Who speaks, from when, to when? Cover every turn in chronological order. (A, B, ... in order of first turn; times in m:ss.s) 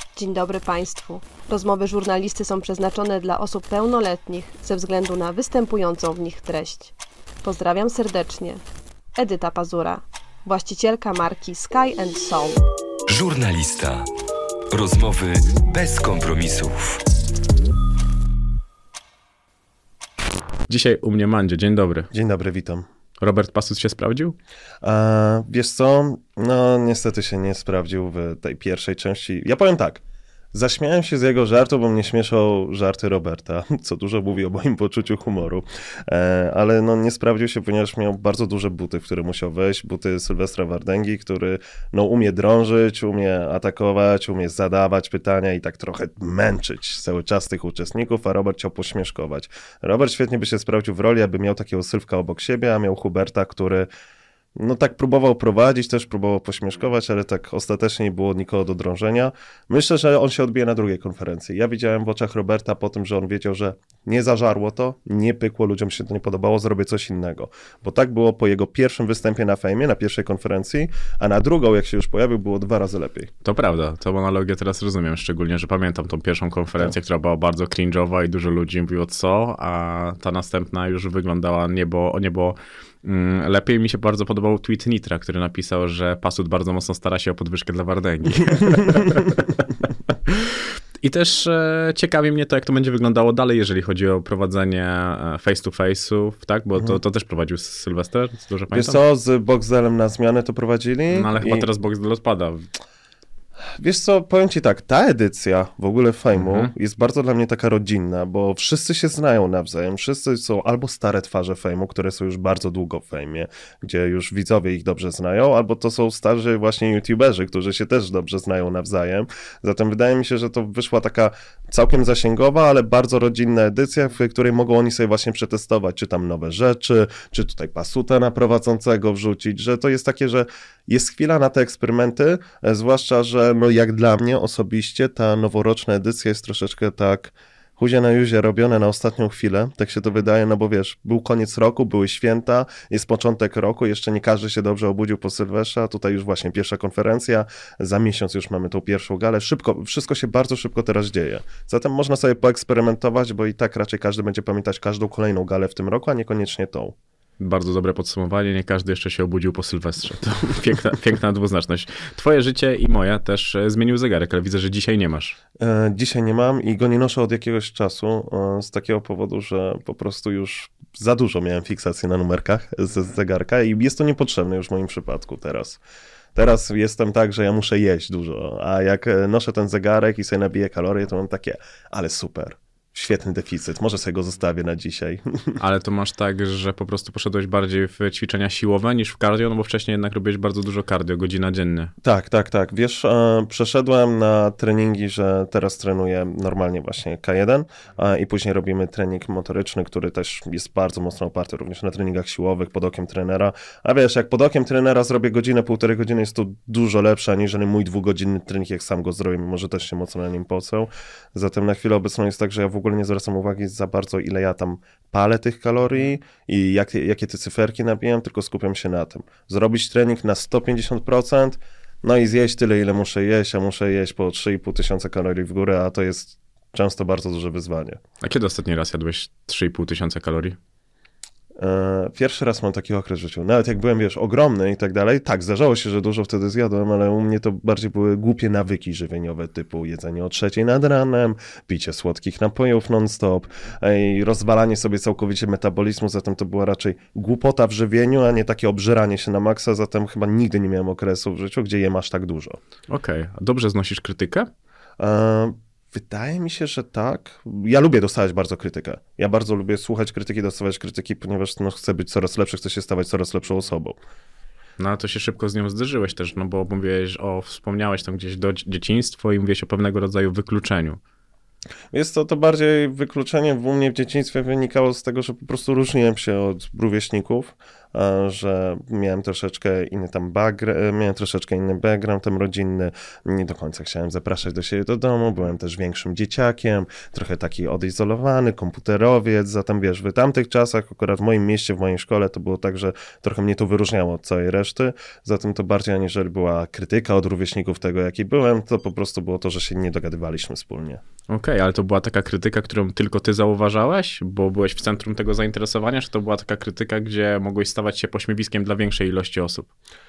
0:00.2-0:08.6 A
0:09.2-0:12.6 A
0:13.1-0:14.1 B
0:14.7-0:17.0 B
0:20.7-0:22.1 C
0:22.1-0:22.9 D
0:23.2-0:24.4 C
0:24.8-0:30.0 D
0:30.5-0:53.9 D
0:54.6-1:13.3 D
1:13.4-1:29.5 C
1:30.3-1:39.0 C
1:38.7-1:41.7 D
1:41.1-1:42.7 C
1:43.8-2:37.0 D
1:46.4-1:46.7 C
2:37.4-2:45.4 C
2:45.6-2:55.8 D
2:56.4-3:05.6 D
3:05.6-3:11.9 C
3:12.0-3:48.0 D
3:48.2-3:50.6 C
3:51.6-4:12.6 D
4:12.9-4:14.5 C
4:15.0-4:24.0 D
4:24.8-4:31.0 C
4:31.9-5:01.0 D
5:01.3-5:09.7 C